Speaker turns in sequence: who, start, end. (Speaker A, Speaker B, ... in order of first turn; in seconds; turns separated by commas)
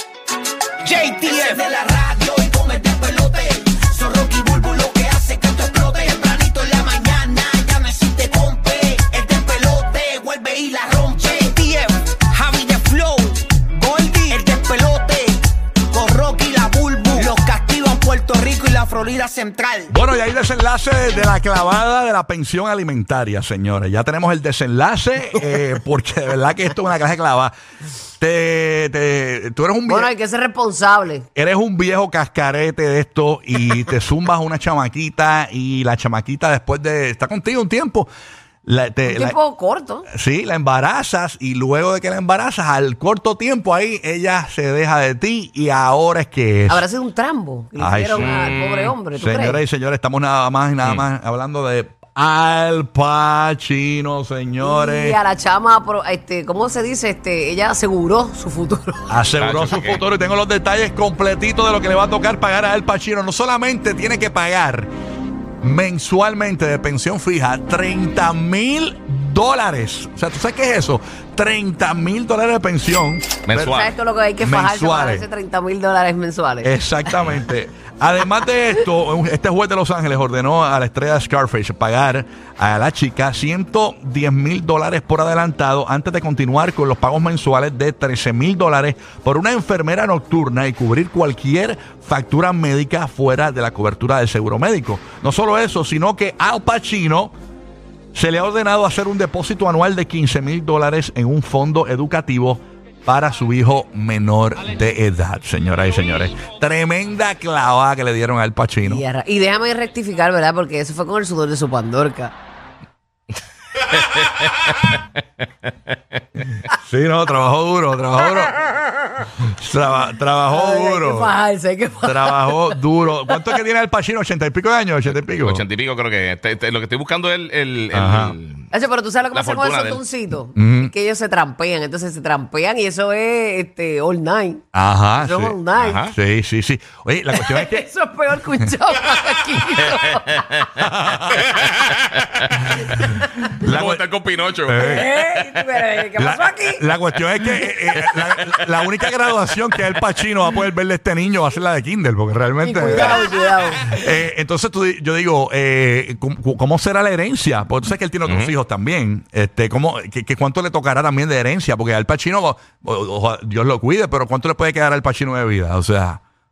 Speaker A: 0.8-19.9, Speaker B: 19.9-27.5, Speaker B: 28.2-30.1, Speaker C: 29.9-31.3, Speaker B: 31.3-38.1, Speaker B: 38.7-39.4, Speaker C: 39.1-40.1, Speaker B: 40.1-46.9, Speaker C: 46.7-49.6, Speaker B: 47.8-48.4, Speaker D: 48.1-48.9, Speaker B: 49.2-55.2, Speaker C: 54.6-59.1, Speaker B: 59.1-64.9, Speaker D: 59.4-60.0, Speaker B: 65.6-73.9, Speaker D: 73.5-73.9, Speaker C: 73.7-76.8, Speaker B: 74.4-75.2, Speaker B: 76.6-97.3, Speaker B: 98.1-109.0, Speaker C: 108.8-112.3, Speaker D: 113.8-116.0, Speaker B: 116.7-118.6, Speaker B: 119.4-121.3, Speaker C: 120.5-122.7, Speaker B: 122.0-125.6, Speaker D: 125.4-128.7, Speaker B: 127.9-128.3, Speaker C: 128.7-134.6, Speaker D: 129.3-130.0, Speaker B: 130.6-130.9, Speaker B: 134.7-135.6, Speaker C: 135.2-136.0, Speaker D: 135.8-136.2, Speaker B: 136.1-137.9, Speaker C: 137.3-140.4, Speaker D: 139.8-140.7, Speaker B: 140.8-141.4, Speaker D: 141.3-143.0, Speaker B: 142.7-144.0, Speaker D: 143.5-145.8, Speaker B: 144.7-145.1, Speaker C: 144.7-146.9, Speaker B: 146.2-153.2, Speaker D: 147.4-149.1, Speaker C: 152.6-154.1, Speaker B: 153.8-166.2, Speaker D: 158.3-158.5